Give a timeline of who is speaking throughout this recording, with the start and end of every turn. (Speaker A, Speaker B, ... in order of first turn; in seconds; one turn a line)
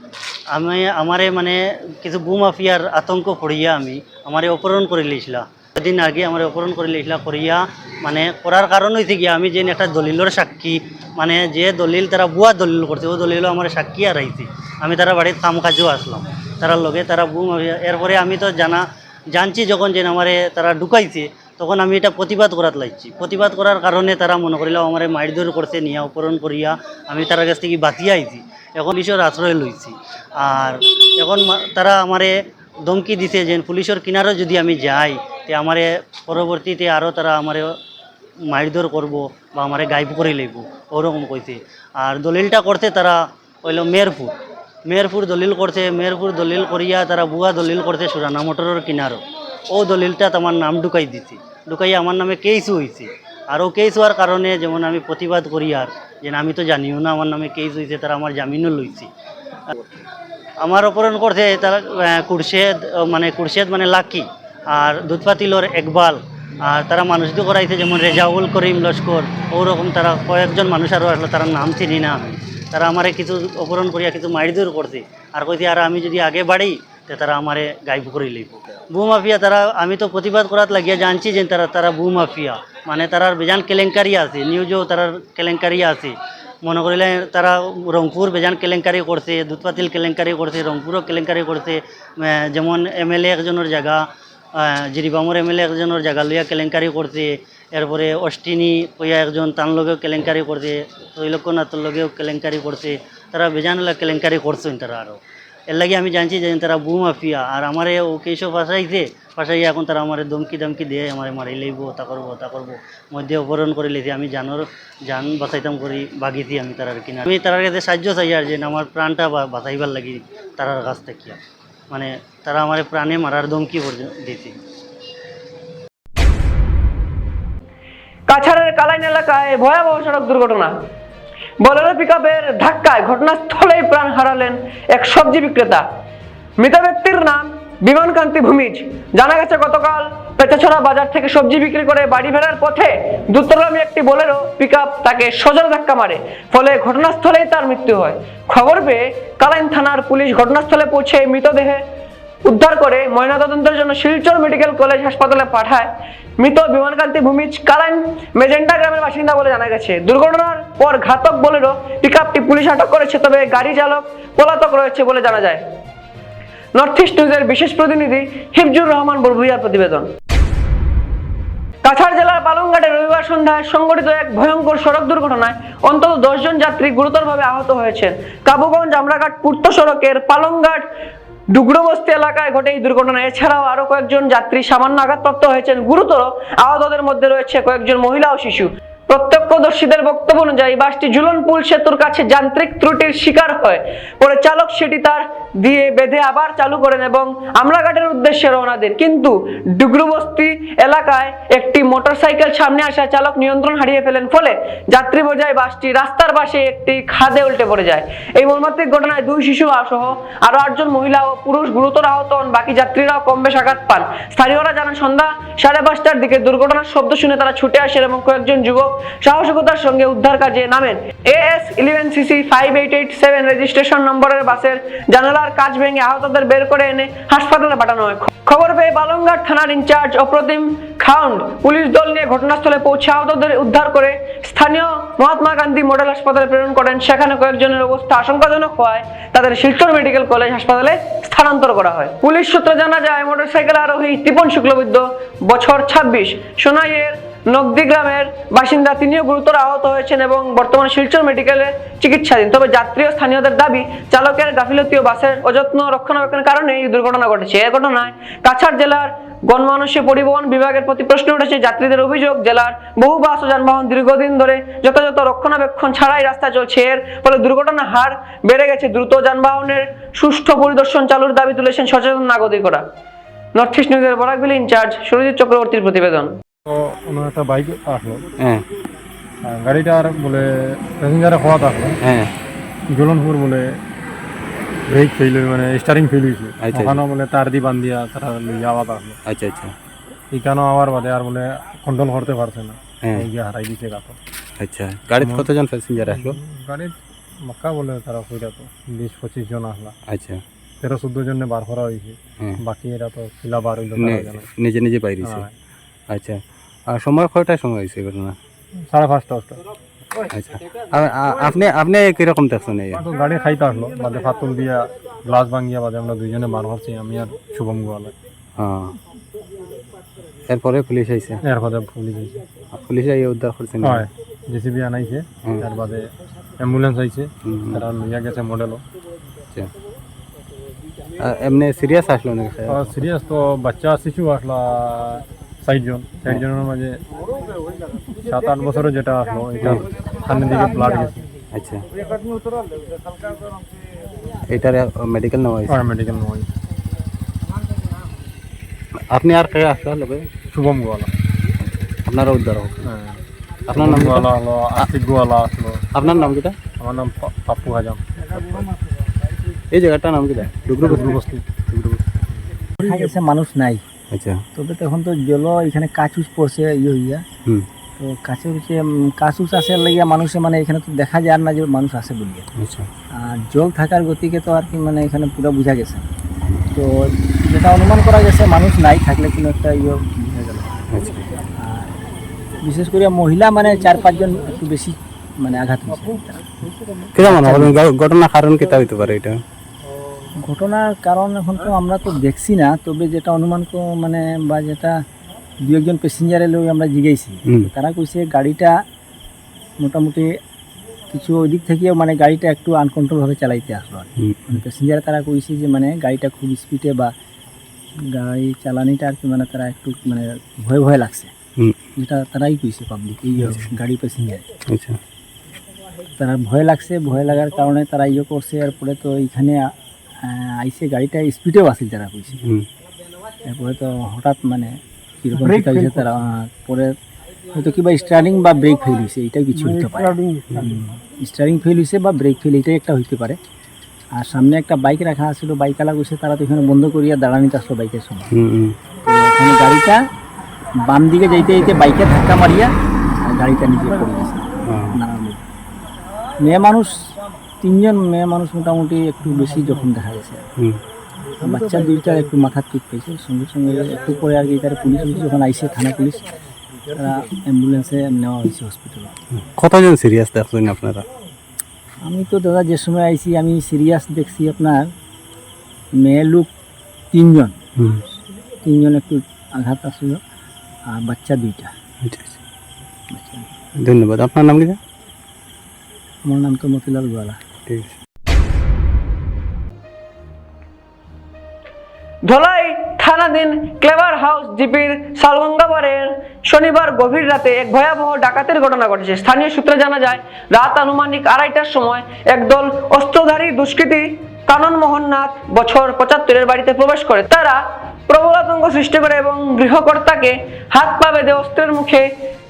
Speaker A: 0.5-32.3
Speaker A: 32.9-37.7
Speaker A: 38.5-44.3
Speaker A: 44.9-49.2
Speaker A: 49.7-59.1
Speaker A: 60.6-94.1
Speaker A: 94.6-121.4
Speaker A: 121.9-124.5
Speaker B: 128.3-130.7
Speaker B: 131.6-135.8
Speaker B: 136.6-151.8
Speaker B: 152.4-165.6
Speaker B: 166.8-170.1
Speaker B: 171.8-180.8
Speaker B: 181.5-272.8
Speaker B: 273.6-276.3
Speaker C: 276.7-278.2
Speaker C: 279.5-281.9
Speaker D: 282.0-282.3
Speaker C: 282.9-283.8
Speaker C: 284.9-289.2
Speaker D: 286.6-287.0
Speaker D: 289.2-289.8
Speaker C: 290.3-294.2
Speaker D: 293.0-293.3
Speaker D: 294.6-296.4
Speaker C: 296.4-297.0
Speaker C: 297.5-299.9
Speaker D: 300.1-300.4
Speaker C: 300.8-304.4
Speaker D: 304.0-305.5
Speaker D: 306.1-308.4
Speaker C: 308.9-309.6
Speaker D: 310.3-313.0
Speaker C: 313.0-318.1
Speaker D: 318.6-319.0
Speaker D: 320.5-321.4
Speaker C: 321.5-322.4
Speaker D: 322.7-324.1
Speaker C: 323.9-326.1
Speaker C: 326.6-328.8
Speaker D: 327.4-327.9
Speaker D: 331.2-333.0
Speaker C: 332.7-337.0
Speaker C: 338.3-341.2
Speaker D: 341.5-341.8
Speaker D: 344.5-345.8
Speaker C: 345.7-346.5
Speaker D: 349.1-350.3
Speaker C: 350.5-351.1
Speaker D: 351.7-352.9
Speaker C: 352.9-353.2
Speaker D: 353.7-354.9
Speaker C: 353.8-355.8
Speaker D: 355.9-356.6
Speaker C: 356.8-358.0
Speaker D: 359.7-362.0
Speaker C: 360.9-361.4
Speaker E: 362.8-363.8
Speaker D: 364.1-364.4
Speaker E: 364.6-367.2
Speaker E: 368.0-372.5
Speaker D: 372.6-372.9
Speaker E: 373.2-376.1
Speaker E: 376.7-380.8
Speaker D: 380.9-381.3
Speaker E: 381.6-381.9
Speaker E: 382.6-386.5
Speaker D: 387.1-389.4
Speaker E: 387.1-387.8
Speaker E: 390.4-395.0
Speaker E: 395.6-398.7
Speaker E: 399.8-400.3
Speaker E: 401.1-407.1
Speaker D: 404.2-404.6
Speaker E: 408.1-411.3
Speaker E: 412.0-414.5
Speaker D: 413.4-413.7
Speaker D: 414.7-415.0
Speaker E: 416.2-419.7
Speaker E: 420.2-422.4
Speaker E: 423.4-426.9
Speaker E: 427.5-433.4
Speaker E: 434.2-438.3
Speaker D: 438.3-438.8
Speaker E: 439.0-440.0
Speaker E: 440.9-442.7
Speaker E: 443.2-445.4
Speaker D: 444.7-445.0
Speaker E: 446.4-450.4
Speaker E: 451.4-456.2
Speaker E: 457.0-459.1
Speaker D: 459.4-461.1
Speaker E: 462.1-464.9
Speaker E: 466.0-466.5
Speaker E: 467.1-467.6
Speaker E: 468.6-470.2
Speaker E: 470.9-471.7
Speaker D: 472.1-472.4
Speaker E: 473.1-473.5
Speaker D: 473.8-474.8
Speaker E: 476.2-477.4
Speaker D: 477.7-477.9
Speaker B: 482.3-502.1